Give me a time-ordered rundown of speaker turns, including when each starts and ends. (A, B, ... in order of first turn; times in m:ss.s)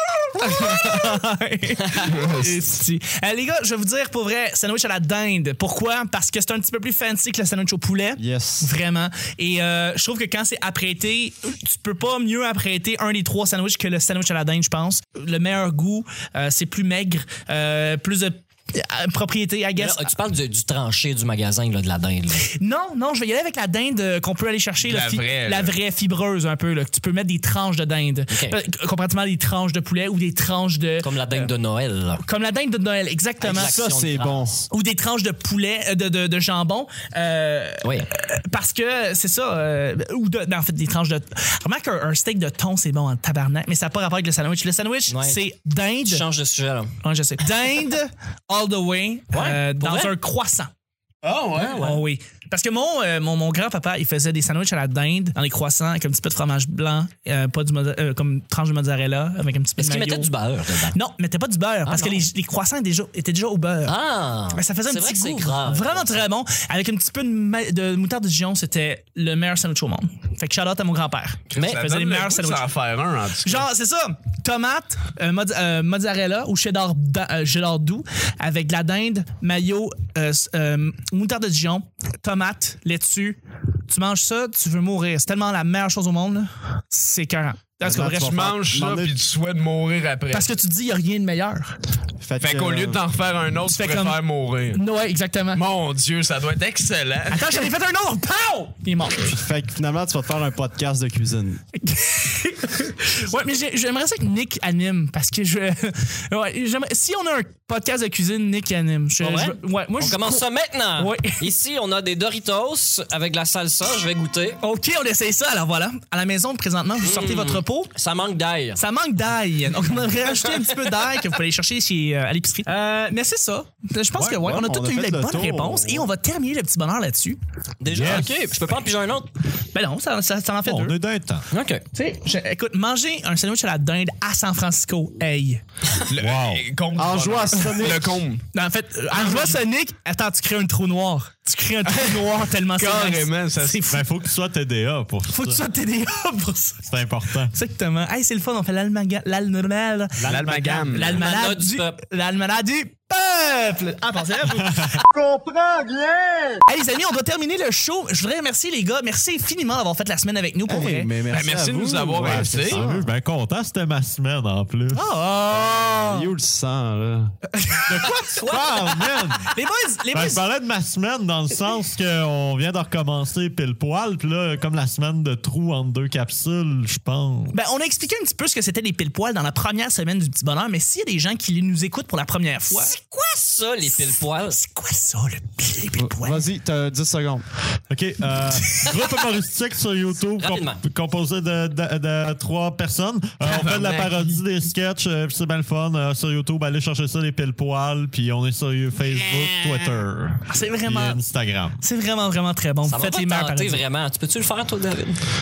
0:00.2-0:20.1 A
0:02.1-0:02.6 B
0:08.2-0:08.7 C
0:19.8-0:22.5 D
0:22.4-0:31.5 A
0:24.8-0:25.7 B
0:28.3-0:28.6 D
0:31.0-0:32.2 D
0:32.2-0:33.8 A
0:33.4-0:34.5 D
0:33.5-0:34.6 C
0:34.7-0:46.2 A
0:37.8-0:38.1 D
0:45.1-0:45.4 D
0:46.0-0:47.0 D
0:47.0-0:50.7 A
0:49.3-0:50.1 D
0:51.2-0:52.0 B
0:51.6-0:52.0 D
0:51.8-1:00.3 A
0:59.8-1:01.0 D
1:00.9-1:04.0 A
1:01.8-1:02.2 D
1:03.9-1:06.2 D
1:04.5-1:12.7 A
1:11.5-1:13.6 B
1:13.4-1:28.4 A
1:27.8-1:29.2 C
1:28.1-1:30.5 B
1:30.3-1:31.8 A
1:32.2-1:33.0 C
1:32.4-1:34.8 B
1:33.7-1:35.6 A
1:35.5-1:37.6 B
1:37.3-1:39.3 A
1:39.2-1:41.6 C
1:41.8-1:50.4 A
1:49.2-1:54.6 D
1:51.0-1:51.5 A
1:54.6-1:57.9 A
1:57.0-1:58.8 D
1:58.8-2:07.4 A
2:04.2-2:06.1 C
2:07.8-2:09.3 D
2:07.9-2:08.6 E
2:09.7-2:11.0 A
2:10.6-2:11.5 E
2:11.5-2:11.8 D
2:11.9-2:15.6 A
2:16.1-2:18.4 B
2:16.2-2:16.6 E
2:16.9-2:18.2 C
2:18.5-2:24.1 A
2:21.9-2:23.9 B
2:23.9-2:25.6 E
2:25.3-2:26.8 A
2:26.8-2:27.5 E
2:27.4-2:35.0 A
2:30.2-2:30.8 E
2:30.3-2:31.2 B
2:31.1-2:32.0 D
2:34.5-2:35.0 E
2:35.1-2:36.5 C
2:36.6-2:41.1 A
2:40.7-2:43.1 C
2:41.3-2:42.8 B
2:42.2-2:45.1 E
2:44.9-2:46.3 A
2:45.8-2:47.3 C
2:47.5-2:50.4 A
2:47.8-2:49.6 E
2:48.4-2:48.7 D
2:50.1-2:57.6 E
2:57.5-3:03.0 A
3:02.7-3:04.6 D
3:03.8-3:06.5 A
3:06.0-3:07.4 C
3:07.9-3:21.8 E
3:08.5-3:09.1 A
3:10.4-3:10.8 D
3:13.4-3:14.4 B
3:19.2-3:19.8 B
3:20.5-3:21.2 A
3:21.8-3:23.8 A
3:22.8-3:25.2 D